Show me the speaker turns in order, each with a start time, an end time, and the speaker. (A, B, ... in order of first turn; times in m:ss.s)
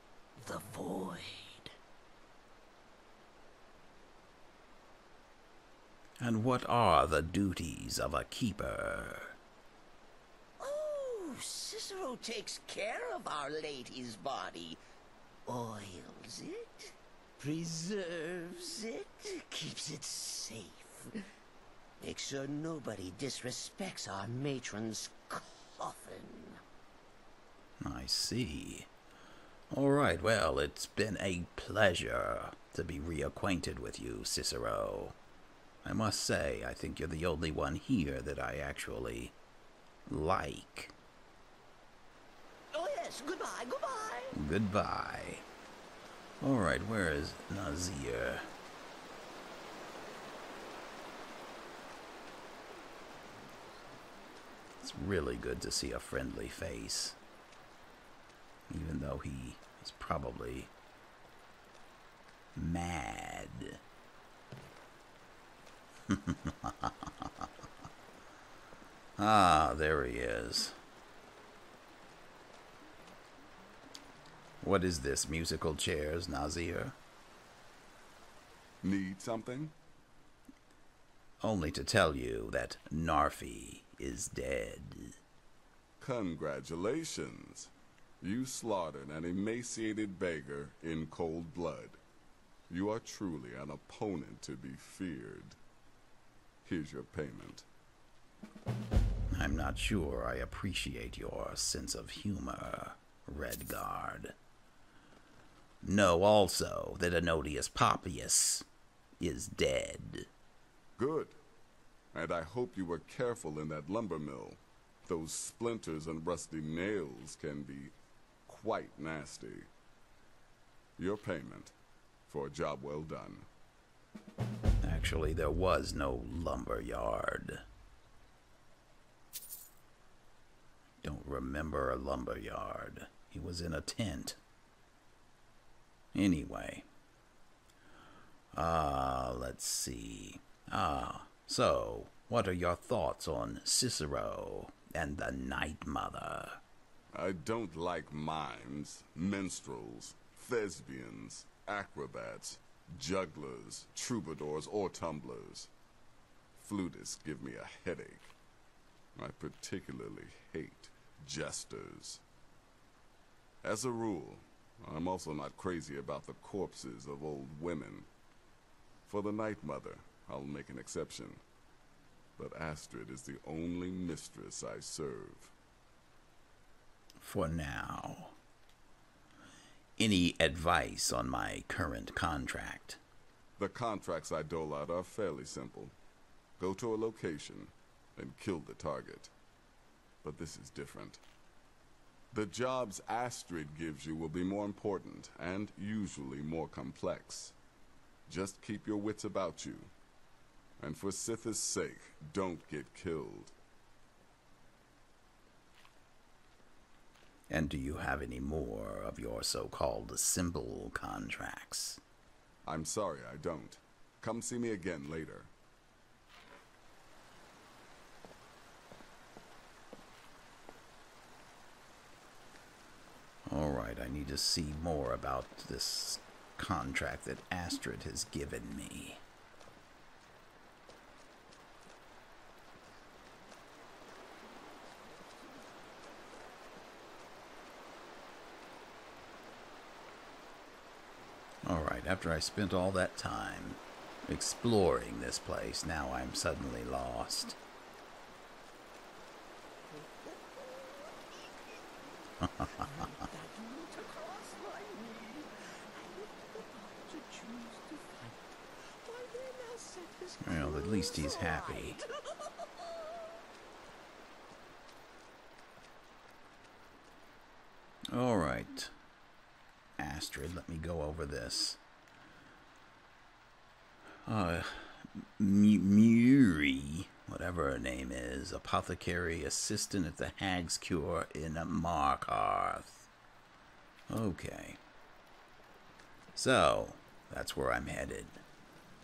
0:00.4-0:01.7 A
0:06.2-0:09.4 B
0:10.6-0:14.8 A
0:15.5-0:21.2 A
0:22.0-0:26.6 A
0:27.8-0:28.9 B
0:29.7-0:35.2 B
0:35.8-0:39.4 B
0:40.1-0:40.9 B
0:42.7-0:44.4 A
0:44.3-0:45.5 B
0:46.4-0:48.5 B
0:54.8-0:57.2 B
0:58.7-1:00.7 B
1:02.6-1:03.8 B
1:06.1-1:07.5 B
1:09.2-1:10.8 B
1:14.6-1:17.0 B
1:18.8-1:19.7 C
1:21.4-1:25.2 B
1:26.0-1:32.0 C
1:32.7-1:35.6 C
1:36.6-1:37.6 C
1:39.3-1:44.4 B
1:45.8-1:48.7 B
1:49.2-1:50.3 B
1:51.0-1:51.4 C
1:52.1-1:57.9 C
1:58.5-1:59.7 C
2:01.0-2:01.7 C
2:02.3-2:03.5 C
2:04.8-2:07.6 B
2:11.0-2:14.4 B
2:16.1-2:16.9 B
2:18.5-2:26.6 B
2:27.1-2:35.7 C
2:36.6-2:38.3 C
2:39.2-2:42.2 C
2:43.6-2:48.1 C
2:49.1-2:51.4 C
2:52.4-2:55.5 C
2:57.2-2:58.4 B
3:00.0-3:03.0 B
3:03.6-3:05.9 C
3:06.6-3:09.3 C
3:10.2-3:11.2 C
3:12.3-3:17.6 C
3:18.3-3:19.9 C
3:20.8-3:23.5 C
3:27.5-3:32.0 B
3:32.6-3:35.5 C
3:43.5-3:49.2 B
4:01.6-4:07.6 B
4:09.9-4:23.4 A
4:20.4-4:22.0 B
4:28.1-4:28.9 B
4:30.0-4:31.8 B
4:34.2-4:43.1 B
4:44.1-4:44.8 B
4:46.4-4:48.4 B